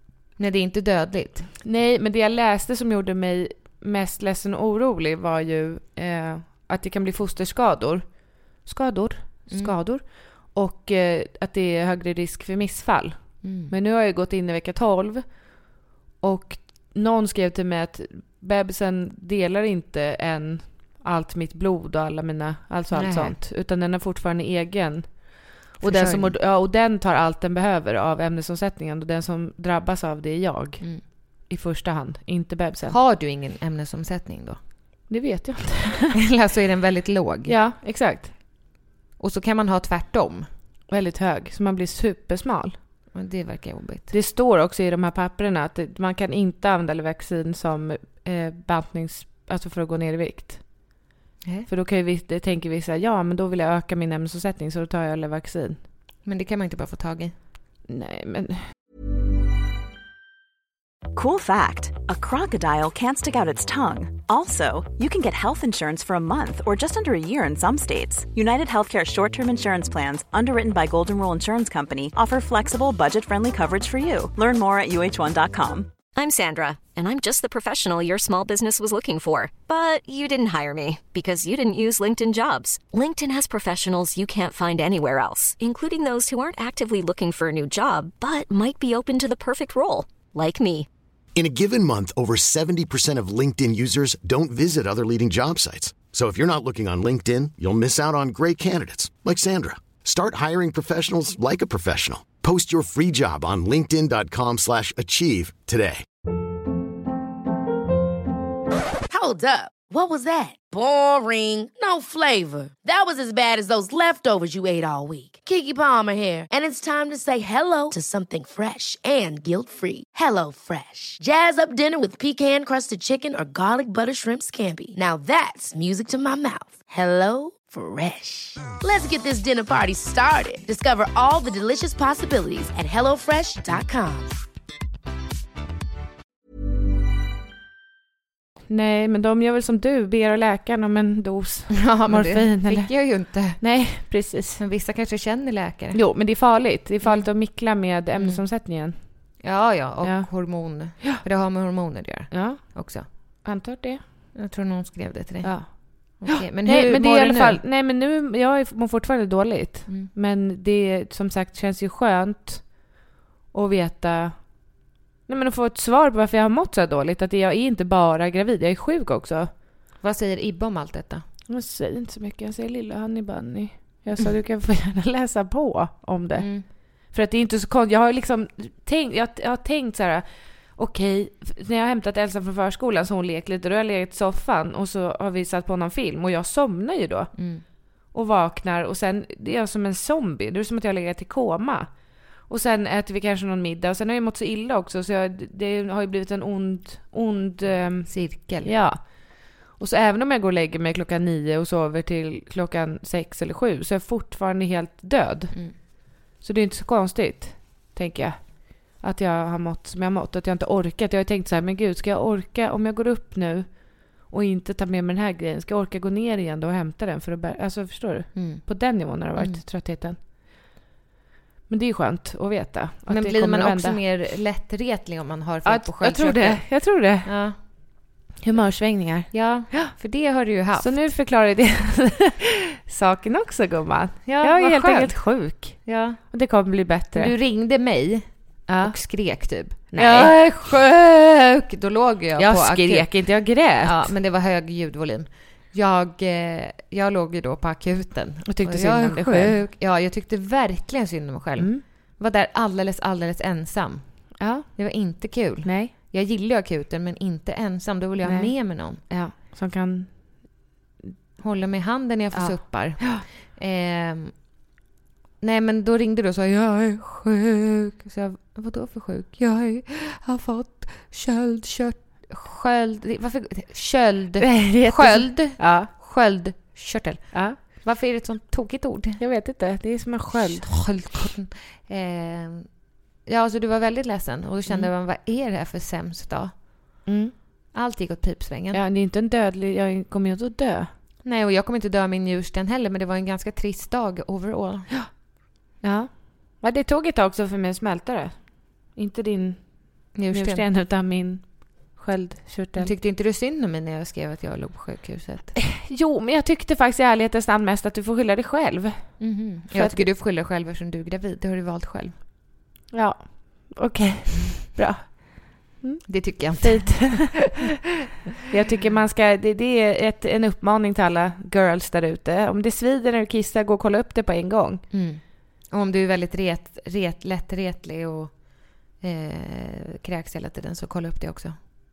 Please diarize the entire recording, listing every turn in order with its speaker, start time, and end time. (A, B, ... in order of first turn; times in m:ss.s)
0:00.4-0:01.5 A
0:01.6-0:33.0 B
0:09.5-0:09.8 A
0:13.4-0:13.7 A
0:22.9-0:23.4 A
0:25.8-0:26.4 A
0:32.9-0:34.6 A
0:35.1-0:36.2 B
0:36.2-0:37.6 A
0:37.5-0:38.3 B
0:39.2-0:40.5 A
0:40.9-0:42.8 B
0:43.1-0:44.1 A
0:44.1-0:51.0 B
0:51.4-0:51.7 A
0:51.7-0:55.8 B
0:56.2-0:57.3 A
0:57.9-0:58.7 B
1:01.1-1:16.0 C
1:16.1-1:30.9 D
1:31.4-1:46.0 E
1:49.1-2:14.3 F
2:18.7-2:24.6 B
2:21.7-2:23.8 A
2:24.6-2:26.0 A
2:25.9-2:29.0 B
2:27.0-2:27.3 A
2:28.2-2:28.4 A
2:29.4-2:33.1 A
2:30.0-2:31.2 B
2:32.3-2:34.0 B
2:34.3-2:37.6 A
2:35.4-2:42.9 B
2:43.5-2:44.7 B
2:45.3-2:49.5 B
2:50.0-2:51.2 A
2:51.5-3:07.4 B
2:56.4-2:56.7 A
3:07.4-3:07.6 A
3:08.1-3:40.2 B
3:18.1-3:18.7 A
3:38.3-3:38.7 A
3:39.3-3:39.6 A
3:41.7-3:44.0 B
3:43.1-3:47.6 A
3:45.6-3:47.8 B
3:48.4-3:49.9 B
3:49.3-3:51.1 A
3:50.8-3:57.3 B
3:54.3-3:56.2 A
3:57.1-4:03.1 A
3:58.7-3:59.0 B
3:59.9-4:00.3 B
4:02.4-4:04.1 B
4:03.8-4:19.0 A
4:08.5-4:09.6 B
4:11.6-4:11.8 B
4:14.4-4:14.7 B
4:15.6-4:15.9 B
4:18.2-4:21.1 B
4:21.4-4:24.4 A
4:22.3-4:23.2 B
4:25.4-4:39.2 A
4:34.4-4:35.9 B
4:37.3-4:37.6 B
4:39.2-4:40.7 B
4:40.4-4:42.7 A
4:43.2-4:46.6 A
4:47.1-4:47.3 B
4:47.7-4:48.8 A
4:48.7-4:50.9 B
4:51.2-4:54.9 A
4:55.8-5:02.9 B
5:00.1-5:00.6 A
5:02.8-5:05.6 A
5:05.6-5:10.1 B
5:09.2-5:12.2 A
5:12.9-5:17.6 B
5:16.1-5:17.4 A
5:18.5-5:24.8 B
5:24.9-5:31.6 A